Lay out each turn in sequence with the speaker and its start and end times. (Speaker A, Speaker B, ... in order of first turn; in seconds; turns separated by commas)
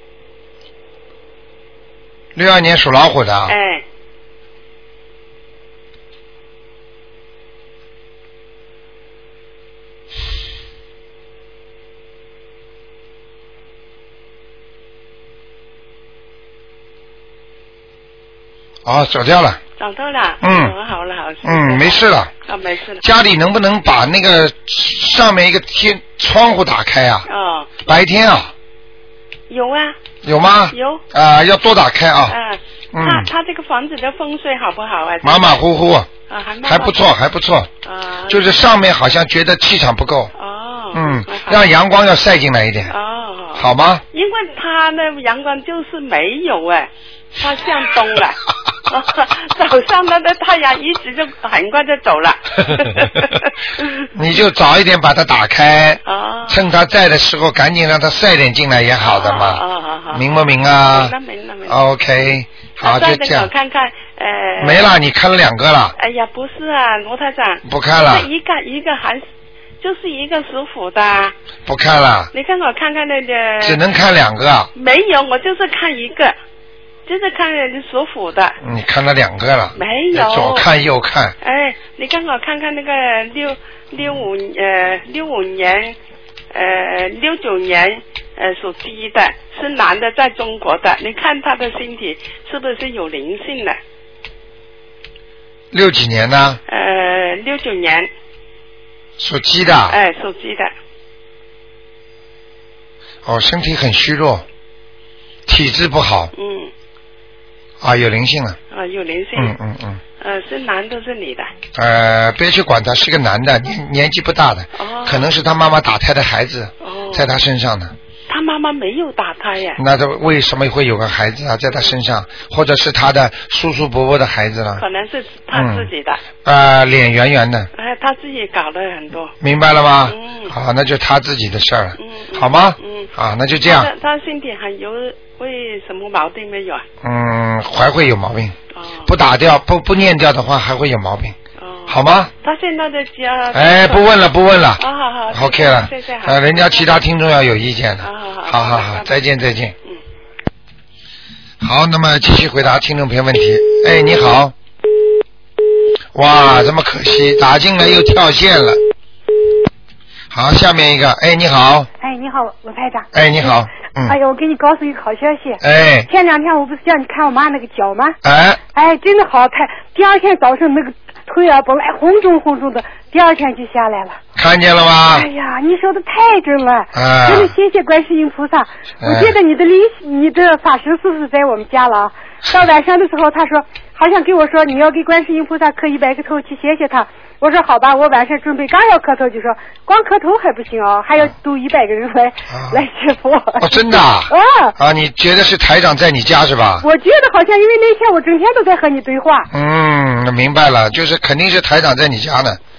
Speaker A: 2.4-3.5, Speaker B: 3.5-3.8, Speaker A: 18.9-19.6, Speaker B: 19.8-23.0, Speaker A: 20.4-20.7, Speaker A: 21.4-22.3, Speaker A: 23.0-27.2, Speaker B: 27.3-27.8, Speaker A: 27.9-28.5, Speaker B: 29.5-30.0, Speaker A: 30.2-32.4, Speaker B: 30.7-31.0, Speaker B: 32.3-35.6, Speaker A: 32.9-33.3, Speaker A: 35.2-36.1, Speaker B: 36.3-37.0, Speaker A: 36.6-37.7, Speaker B: 37.8-38.5, Speaker A: 38.3-40.3, Speaker B: 40.4-41.7, Speaker A: 40.9-42.9, Speaker B: 42.9-54.1, Speaker A: 43.6-44.0, Speaker A: 54.1-61.1, Speaker B: 56.1-56.6, Speaker B: 59.0-60.3, Speaker B: 60.8-61.8, Speaker A: 61.7-63.5, Speaker B: 62.8-64.9, Speaker A: 64.6-66.0, Speaker B: 66.0-69.2, Speaker A: 67.6-68.3, Speaker B: 69.8-71.3, Speaker A: 71.7-72.3, Speaker B: 72.3-73.8, Speaker A: 73.6-74.7, Speaker B: 74.8-76.3, Speaker B: 77.1-78.6, Speaker A: 78.6-81.3, Speaker B: 79.8-80.7, Speaker B: 81.4-86.0, Speaker B: 86.5-93.8, Speaker A: 95.7-96.6, Speaker B: 96.7-98.1, Speaker A: 99.2-100.0, Speaker B: 99.9-100.7, Speaker A: 103.2-104.5, Speaker A: 105.5-106.3, Speaker B: 106.3-106.7, Speaker A: 107.8-108.6, Speaker B: 108.7-109.6, Speaker A: 109.4-110.0, Speaker B: 110.2-111.5, Speaker A: 111.8-118.0, Speaker B: 114.8-115.3, Speaker B: 116.8-117.3, Speaker B: 118.3-119.8, Speaker A: 119.8-124.8, Speaker B: 124.8-126.2, Speaker A: 125.5-125.9, Speaker A: 126.4-127.7, Speaker B: 127.8-129.3, Speaker A: 129.4-133.9, Speaker B: 130.1-130.5, Speaker B: 132.0-133.1, Speaker B: 133.6-136.8, Speaker A: 137.0-141.4, Speaker B: 138.7-139.1, Speaker B: 141.6-144.1, Speaker A: 141.9-142.3, Speaker A: 143.5-149.8, Speaker B: 144.8-146.9, Speaker B: 148.0-149.2, Speaker A: 151.6-154.5, Speaker A: 156.1-158.8, Speaker A: 160.3-161.9, Speaker C: 162.0-163.5, Speaker A: 163.1-164.2, Speaker C: 164.1-168.2, Speaker A: 165.6-166.1, Speaker A: 168.2-168.6, Speaker C: 168.7-174.2, Speaker A: 174.4-175.3, Speaker C: 175.1-194.8, Speaker A: 176.9-177.5, Speaker A: 179.0-179.3, Speaker A: 192.5-192.8, Speaker A: 193.6-196.8, Speaker C: 196.8-199.5, Speaker A: 199.5-202.6